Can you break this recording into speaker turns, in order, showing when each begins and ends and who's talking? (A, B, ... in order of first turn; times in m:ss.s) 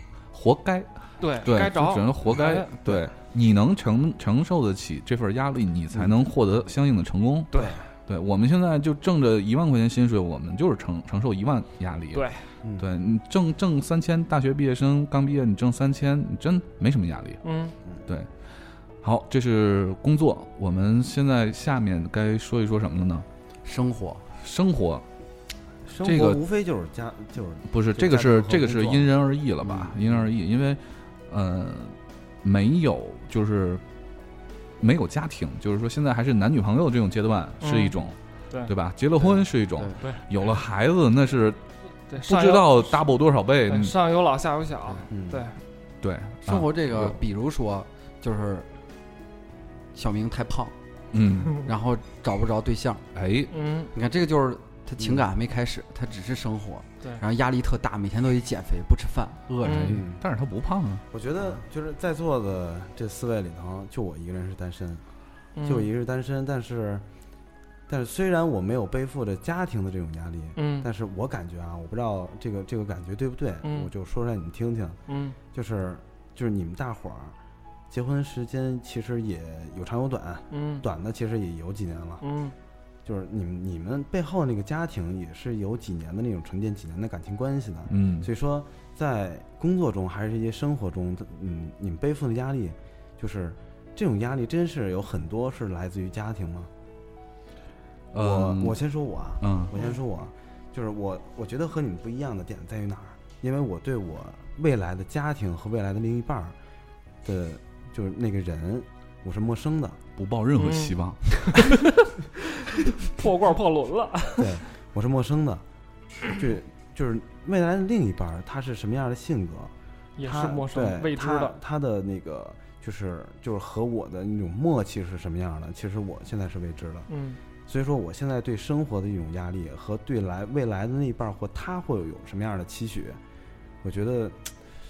0:00.3-0:12.3 A
0:01.2-0:02.7 B
0:07.5-0:07.8 B
0:12.1-0:12.4 B
0:12.8-0:17.4 A
0:17.4-0:17.8 B
0:19.0-0:23.3 A
0:23.6-0:24.3 C
0:24.4-0:25.0 A
0:25.9-0:29.1 D
0:26.0-0:26.4 A
0:27.7-0:33.8 A
0:29.6-0:30.2 D
0:34.8-0:38.2 A
0:37.6-0:38.0 B
0:38.7-0:41.6 A
0:42.1-0:43.0 B
0:42.2-0:44.0 A
0:43.7-0:45.6 B
0:45.1-0:45.5 D
0:46.0-0:47.2 A
0:46.4-0:48.7 C
0:49.9-0:50.8 C
0:51.1-0:51.7 A
0:51.6-0:53.0 C
0:53.2-0:53.5 A
0:53.5-0:53.9 B
0:53.9-1:00.0 C
0:59.6-1:01.0 A
0:59.6-1:00.0 B
0:59.9-1:00.2 D
1:01.1-1:05.0 D
1:05.6-1:05.9 B
1:05.6-1:07.0 D
1:07.9-1:15.0 D
1:10.6-1:10.9 B
1:13.6-1:13.9 B
1:15.1-1:15.4 B
1:15.5-1:17.4 D
1:17.9-1:22.2 D
1:20.5-1:20.8 B
1:22.2-1:22.6 B
1:23.0-1:36.7 D
1:27.9-1:28.3 A
1:38.1-1:38.8 A
1:38.1-1:46.6 D
1:39.4-1:39.7 A
1:47.2-1:50.0 D
1:50.2-1:51.8 A
1:50.6-1:51.0 B
1:53.0-1:54.6 B
1:54.4-1:55.6 D
1:56.3-2:07.1 D
2:00.2-2:01.6 B
2:07.1-2:07.4 B
2:07.7-2:13.2 D
2:13.8-2:14.5 D